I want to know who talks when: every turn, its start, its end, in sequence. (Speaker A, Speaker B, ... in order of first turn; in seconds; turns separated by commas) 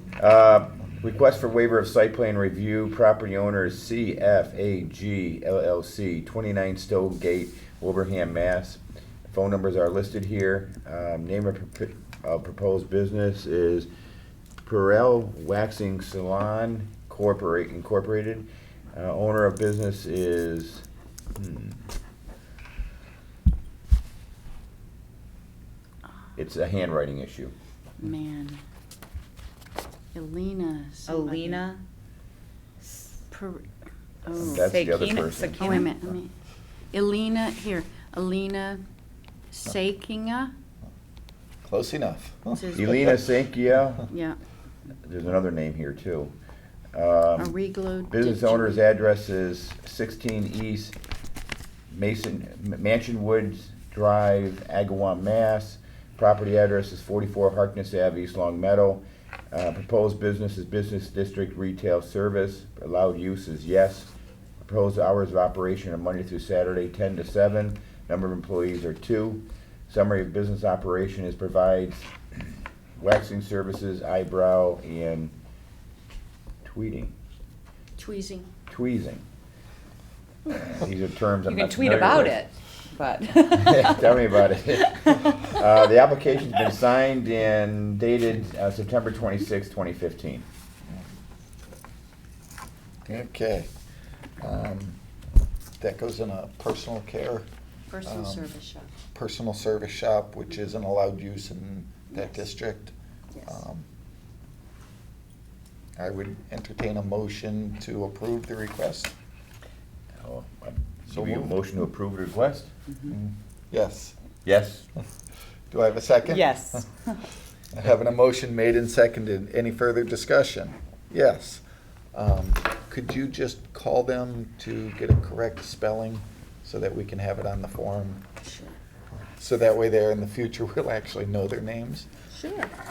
Speaker A: 0.2-13.9, Speaker A: 14.6-20.9, Speaker A: 21.4-21.8, Speaker A: 26.4-27.5, Speaker B: 28.0-28.6, Speaker B: 30.1-31.7, Speaker C: 31.1-31.8, Speaker B: 33.3-33.7, Speaker B: 34.2-34.7, Speaker C: 34.4-35.9, Speaker A: 34.4-35.9, Speaker B: 35.6-36.3, Speaker B: 36.9-38.8, Speaker B: 39.5-40.5, Speaker D: 41.6-43.0, Speaker B: 42.5-43.2, Speaker A: 42.7-44.1, Speaker B: 44.1-44.4, Speaker A: 45.0-46.3, Speaker A: 46.9-51.0, Speaker B: 47.4-48.8, Speaker A: 51.9-64.1, Speaker A: 64.6-72.1, Speaker A: 73.0-75.3, Speaker A: 76.6-77.1, Speaker B: 78.0-78.5, Speaker A: 78.7-79.2, Speaker A: 80.6-82.5, Speaker C: 81.4-85.6, Speaker A: 83.5-90.5, Speaker D: 93.1-93.7, Speaker D: 94.4-95.0, Speaker D: 95.8-97.5, Speaker B: 97.9-98.9, Speaker D: 98.0-98.5, Speaker D: 99.1-103.8, Speaker B: 102.1-102.4, Speaker D: 106.0-109.2, Speaker A: 110.2-112.7, Speaker D: 111.1-111.5, Speaker D: 113.0-114.2, Speaker A: 114.5-114.9, Speaker D: 115.7-116.8, Speaker C: 116.3-117.2, Speaker D: 117.7-121.6, Speaker D: 122.1-128.2, Speaker B: 128.5-128.7, Speaker D: 129.4-132.1